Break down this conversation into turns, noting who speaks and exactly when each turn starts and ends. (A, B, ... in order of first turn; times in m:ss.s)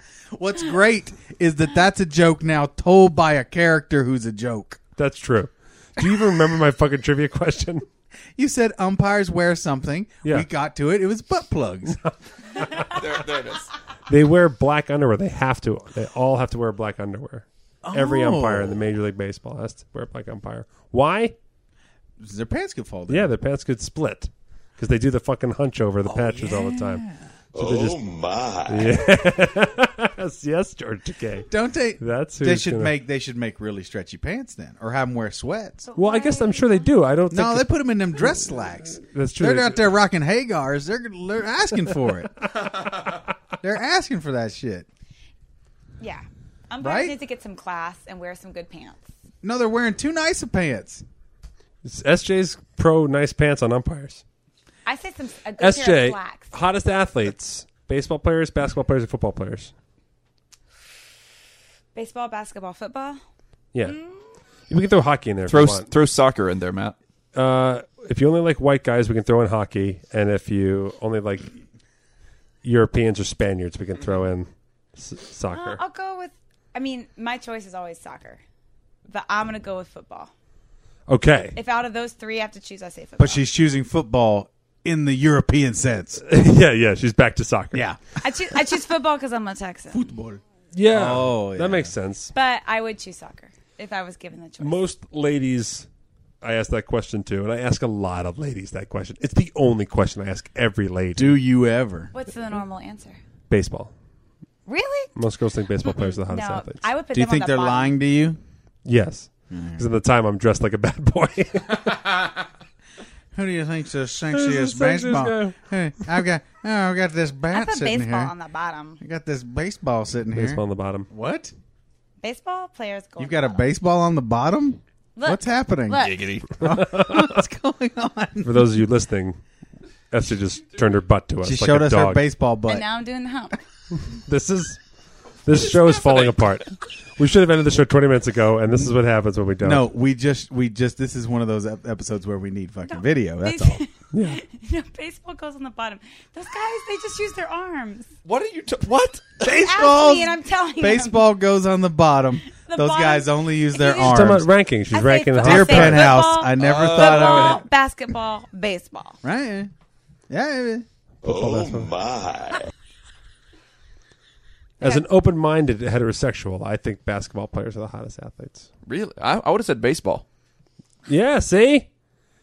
0:00.4-0:04.8 A
0:05.0-0:07.8 B
0:08.4-0:12.0 A
0:11.9-0:12.9 B
0:12.8-0:13.7 C
0:14.1-0:21.4 B
0:17.8-0:18.8 A
0:22.2-0:23.3 A
0:23.1-0:27.0 B
0:26.0-0:27.2 A
0:27.6-0:28.1 B
0:27.6-0:29.0 D
0:28.6-0:32.9 B
0:31.5-0:35.9 A
0:35.9-0:36.9 E
0:36.0-0:37.7 B
0:37.3-0:42.5 A
0:39.0-0:39.9 B
0:43.6-0:44.9 A
0:46.0-0:49.0 E
0:46.8-0:47.2 A
0:49.4-0:51.0 A
0:51.8-0:54.2 B
0:54.9-0:56.5 E
0:55.6-0:59.7 B
1:02.0-1:03.2 E
1:04.7-1:05.9 B
1:05.5-1:07.0 C
1:07.4-1:11.5 B
1:12.6-1:15.8 B
1:15.5-1:18.4 E
1:19.1-1:20.3 E
1:21.1-1:21.6 B
1:21.6-1:23.4 E
1:23.2-1:26.2 A
1:26.2-1:27.9 B
1:27.7-1:28.2 A
1:28.2-1:30.0 E
1:29.9-1:31.9 A
1:30.7-1:32.3 B
1:32.3-1:34.8 E
1:34.6-1:35.9 B
1:36.4-1:41.4 B
1:41.2-1:42.1 A
1:42.1-1:43.2 E
1:43.5-1:43.9 B
1:44.7-1:45.1 E
1:45.2-1:46.8 B
1:45.8-1:48.0 E
1:47.1-1:48.4 A
1:48.9-1:52.0 B
1:49.5-1:49.8 A
1:53.3-1:58.3 A
1:54.3-1:55.6 B
1:57.5-1:59.0 E
1:59.0-2:01.5 A
2:00.3-2:01.1 B
2:02.2-2:03.6 E
2:03.2-2:08.8 A
2:05.2-2:06.3 E
2:05.9-2:06.5 C
2:06.8-2:07.2 B
2:08.4-2:09.4 B
2:10.1-2:12.2 B
2:11.4-2:12.9 A
2:12.7-2:13.6 E
2:14.1-2:14.8 B
2:15.4-2:19.9 B
2:15.6-2:16.4 C
2:19.6-2:23.8 A
2:22.9-2:28.1 E
2:24.1-2:24.4 B
2:28.2-2:29.4 C
2:29.4-2:34.5 A
2:29.5-2:31.2 E
2:32.5-2:34.3 E
2:34.0-2:36.1 B
2:34.9-2:39.2 E
2:35.4-2:37.6 A
2:36.6-2:37.6 C
2:39.2-2:39.7 A
2:40.3-2:40.8 A
2:41.2-2:42.0 B
2:41.2-2:42.7 D
2:44.8-2:48.7 B
2:48.9-2:50.2 C
2:51.1-2:51.9 B